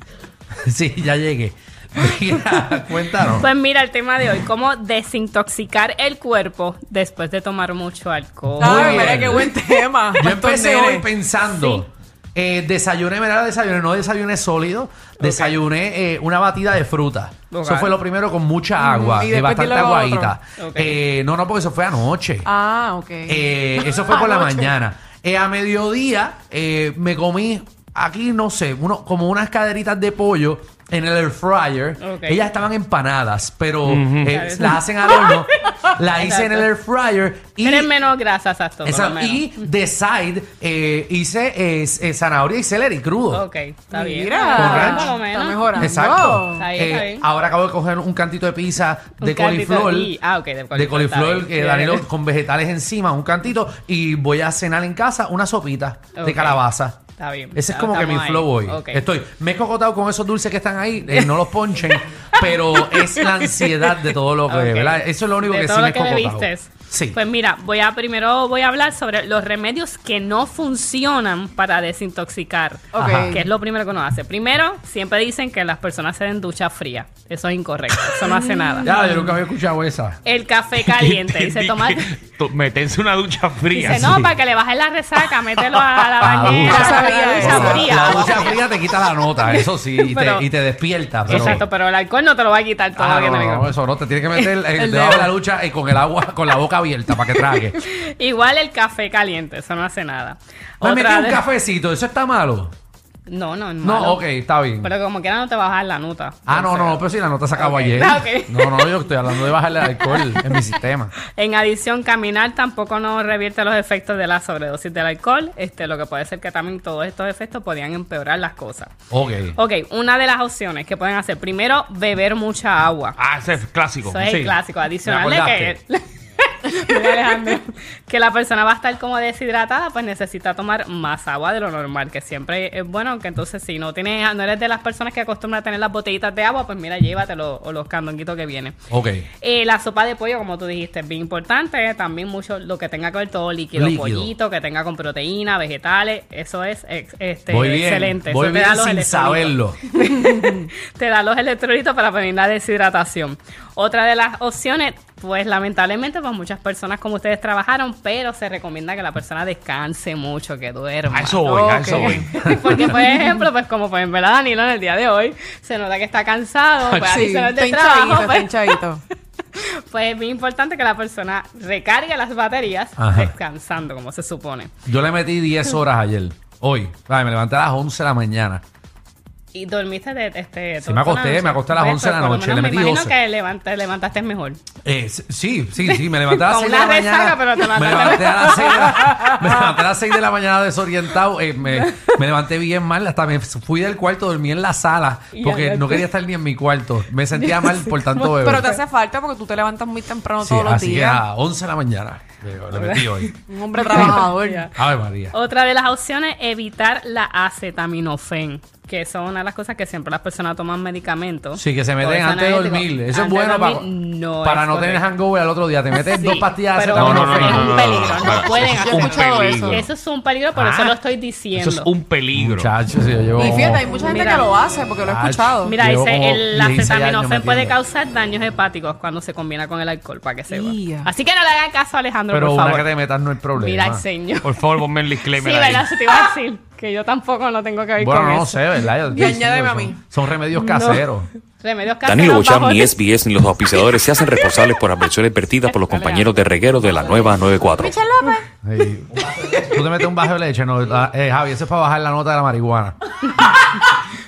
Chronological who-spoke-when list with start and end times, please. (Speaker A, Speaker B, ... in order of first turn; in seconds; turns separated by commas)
Speaker A: 0.6-3.5, Speaker B: 3.2-9.5, Speaker A: 8.6-9.5, Speaker C: 8.6-10.9, Speaker A: 10.2-22.5, Speaker B: 15.2-15.6, Speaker B: 17.5-17.9, Speaker C: 18.8-20.3, Speaker B: 20.6-21.0, Speaker C: 22.5-24.6, Speaker A: 23.3-37.9, Speaker B: 32.0-32.4, Speaker D: 33.8-34.4, Speaker B: 34.3-36.7, Speaker B: 37.6-39.7, Speaker A: 38.8-43.4, Speaker B: 43.3-45.9, Speaker C: 43.9-46.6, Speaker A: 44.5-45.1, Speaker A: 45.8-50.1, Speaker B: 46.5-47.2, Speaker B: 49.2-52.0, Speaker A: 50.7-57.0, Speaker B: 56.1-56.6, Speaker B: 57.2-59.0, Speaker A: 57.5-67.2, Speaker B: 62.4-63.1, Speaker B: 64.5-79.0, Speaker C: 72.9-73.4, Speaker A: 72.9-73.4, Speaker C: 78.3-79.0, Speaker A: 78.8-80.2, Speaker B: 80.2-82.1, Speaker D: 80.8-84.2, Speaker B: 83.8-88.6, Speaker A: 83.8-84.3, Speaker D: 85.3-85.8, Speaker A: 86.2-91.6, Speaker C: 86.7-87.8, Speaker B: 89.4-90.5, Speaker B: 91.2-93.7, Speaker D: 91.3-91.6, Speaker A: 93.0-97.8, Speaker B: 94.3-95.3, Speaker B: 97.3-101.4, Speaker A: 100.8-102.7, Speaker B: 103.3-104.2, Speaker A: 103.8-104.9, Speaker B: 104.8-107.0, Speaker A: 106.5-111.1, Speaker B: 107.5-110.6, Speaker B: 111.3-118.9, Speaker A: 119.1-119.6, Speaker B: 119.5-123.2, Speaker D: 123.2-124.2, Speaker B: 124.0-138.8, Speaker A: 124.2-125.8, Speaker A: 138.9-139.3, Speaker B: 139.4-168.8, Speaker A: 143.7-144.3, Speaker A: 147.5-149.8, Speaker D: 161.1-162.3, Speaker C: 161.5-162.2, Speaker A: 166.8-167.2, Speaker C: 167.0-169.0, Speaker B: 169.5-174.7, Speaker A: 173.0-173.3, Speaker A: 174.8-178.6, Speaker B: 179.5-184.6, Speaker A: 180.8-183.1, Speaker A: 184.8-198.7, Speaker B: 185.8-189.1, Speaker B: 195.3-196.1, Speaker B: 197.3-198.8, Speaker C: 198.4-201.2, Speaker A: 200.4-203.3, Speaker B: 202.7-204.7, Speaker C: 203.5-204.7, Speaker A: 203.9-204.2, Speaker A: 204.7-205.3, Speaker B: 205.3-215.1, Speaker A: 211.5-213.9, Speaker A: 214.4-218.2, Speaker B: 216.0-221.9, Speaker D: 216.9-219.8, Speaker C: 218.7-219.8, Speaker A: 220.5-221.0, Speaker D: 221.5-222.7, Speaker A: 222.3-223.8, Speaker C: 223.3-225.7, Speaker B: 223.8-224.5, Speaker A: 225.0-227.8, Speaker B: 225.6-232.9, Speaker C: 230.5-231.1, Speaker A: 232.3-234.0, Speaker B: 233.5-234.5, Speaker D: 234.4-235.9, Speaker B: 235.3-238.8, Speaker A: 238.0-241.3, Speaker C: 239.1-240.0, Speaker B: 240.5-241.1, Speaker B: 241.6-243.0, Speaker E: 242.0-247.9, Speaker B: 243.7-244.8, Speaker B: 245.7-247.5, Speaker C: 247.8-248.4, Speaker A: 248.6-252.9